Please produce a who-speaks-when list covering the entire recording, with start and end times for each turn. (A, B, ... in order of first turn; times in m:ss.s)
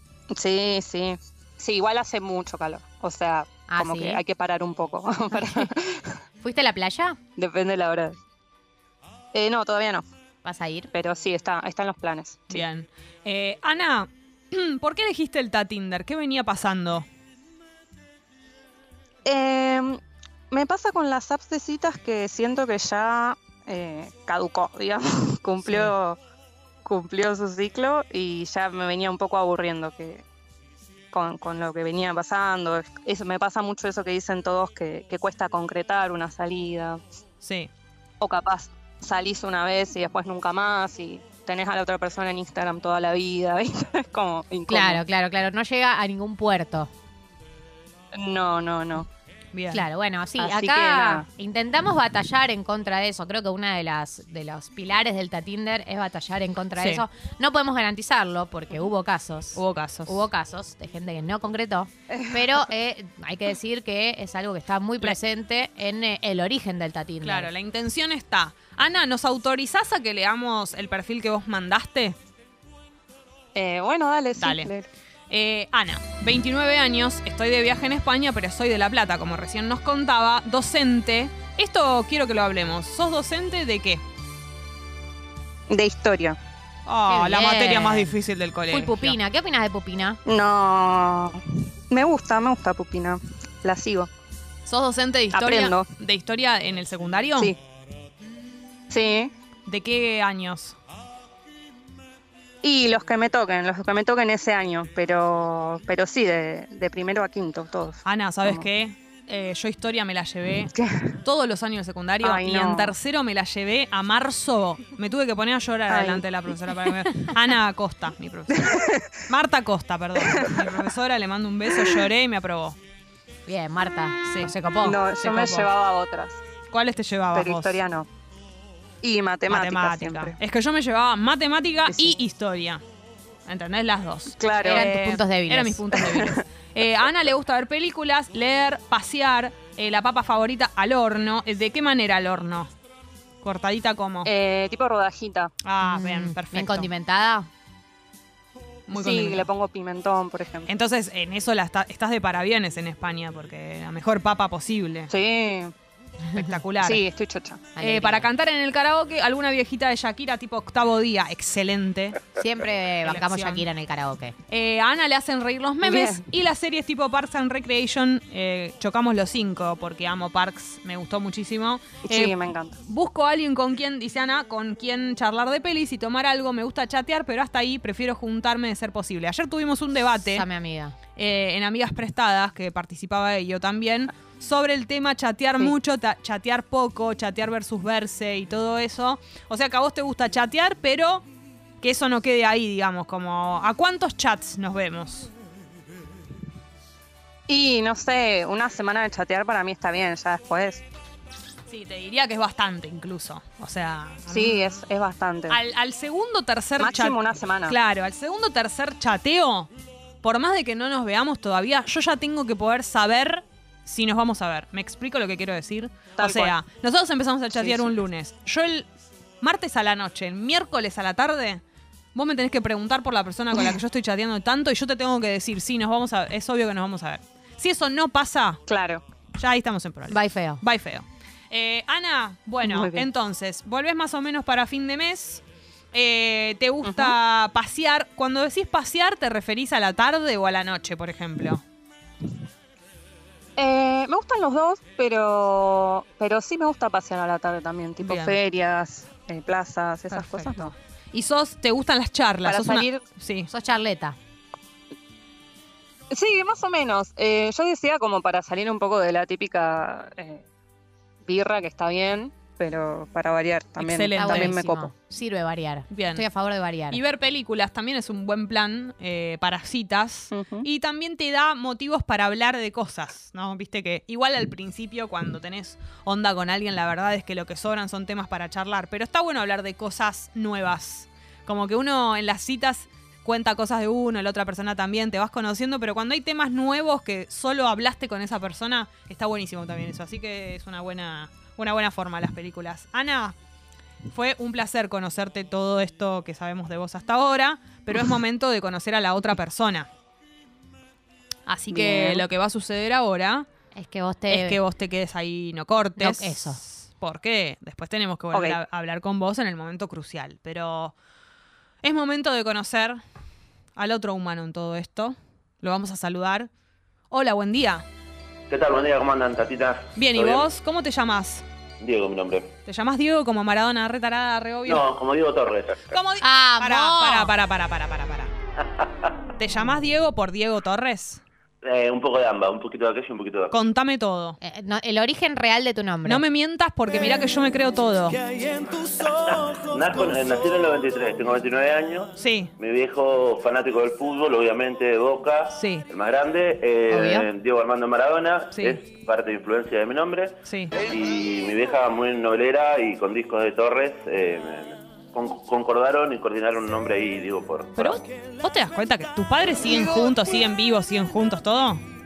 0:00.3-0:06.2 A
0:03.7-0:04.2 B
0:06.4-0:07.2 B
0:07.4-0:08.2 A
0:09.3-0:10.0 A
0:10.4-0:10.9 B
0:10.9-0:12.6 A
0:12.5-0:17.1 C
0:19.2-0:20.0 A
0:20.5-0:26.2 A
0:26.8-0:30.2 A
0:31.1-0:37.0 A
0:37.4-0:37.7 C
0:38.2-0:45.0 A
0:44.7-0:46.9 B
0:48.1-0:49.1 A
0:49.5-0:49.8 C
0:49.7-1:07.5 B
0:50.4-0:51.3 A
0:56.8-0:57.0 C
0:59.6-1:00.2 C
1:02.1-1:02.4 A
1:07.2-1:12.2 C
1:13.6-1:14.9 A
1:14.4-1:14.7 C
1:15.3-1:24.0 C
1:25.7-1:26.4 A
1:26.9-1:29.2 C
1:27.1-1:28.1 B
1:28.7-1:30.2 B
1:30.2-1:34.1 A
1:34.7-1:37.5 C
1:35.3-1:35.9 A
1:38.9-1:39.3 A
1:39.7-1:40.8 C
1:42.6-1:48.6 A
1:48.1-2:02.8 C
1:50.8-1:51.2 A
1:52.2-1:52.9 A
1:55.9-1:57.0 A
1:58.5-1:59.2 A
2:00.2-2:00.8 A
2:01.7-2:02.0 A
2:03.5-2:05.0 B
2:04.3-2:04.5 C
2:04.8-2:06.4 A
2:05.1-2:05.7 C
2:06.7-2:07.8 C
2:07.3-2:08.1 A
2:09.0-2:10.4 A
2:09.5-2:12.8 C
2:11.9-2:12.2 A
2:13.5-2:22.7 C
2:14.4-2:14.9 A
2:14.6-2:15.8 B
2:16.0-2:16.4 A
2:23.4-2:24.3 C
2:24.2-2:25.5 A
2:25.6-2:26.9 C
2:25.8-2:27.5 B
2:28.9-2:29.5 C
2:28.9-2:30.7 A
2:30.7-2:35.1 C
2:35.1-2:35.7 A
2:36.3-2:37.0 C
2:36.8-2:37.7 A
2:37.8-2:38.3 B
2:37.8-2:42.2 C
2:42.4-2:44.4 B
2:43.0-2:43.6 C
2:44.5-3:00.4 C
2:45.8-2:46.2 A
2:52.0-2:52.8 A
3:00.3-3:01.0 B
3:01.2-3:11.2 C
3:11.8-3:15.3 C
3:17.5-3:20.8 A
3:21.7-3:24.7 C
3:24.3-3:25.6 A
3:25.5-3:29.7 C
3:26.8-3:27.8 A
3:30.2-3:38.9 C
3:36.2-3:36.6 A
3:37.6-3:37.9 A
3:39.4-3:41.6 C
3:42.2-3:48.6 C
3:48.7-3:49.0 A
3:49.4-3:55.4 C
3:50.1-3:50.6 B
3:52.6-3:53.1 A
3:55.9-4:01.6 C
3:56.8-3:57.2 A
4:03.6-4:10.7 A
4:08.0-4:08.4 C
4:10.1-4:13.5 C
4:12.4-4:13.0 A
4:13.5-4:14.2 B
4:16.1-4:20.4 A
4:21.2-4:24.9 A
4:23.8-4:24.9 C
4:24.2-4:27.0 B
4:25.9-4:26.2 C
4:26.9-4:53.4 C
4:30.3-4:30.7 A
4:54.1-4:59.9 C
5:01.5-5:03.5 C
5:01.7-5:02.3 A
5:03.8-5:04.6 B
5:04.3-5:11.0 C
5:06.0-5:06.6 B
5:08.3-5:08.6 A
5:11.8-5:13.0 C
5:13.8-5:16.5 C
5:17.1-5:17.8 C
5:18.5-5:20.5 D
5:20.0-5:21.4 C
5:21.8-5:22.6 D
5:22.7-5:24.9 C
5:24.7-5:25.9 D
5:25.9-5:28.3 C
5:26.2-5:27.3 B
5:29.4-5:31.2 C
5:31.6-5:33.5 D
5:33.5-5:34.4 C
5:34.4-5:36.2 B
5:36.0-5:38.2 C
5:39.0-5:58.0 D
5:42.2-5:42.5 C
5:45.5-5:45.9 C
5:46.9-5:47.3 B
5:48.5-5:48.8 C
5:50.4-5:50.8 C
5:57.8-6:01.8 C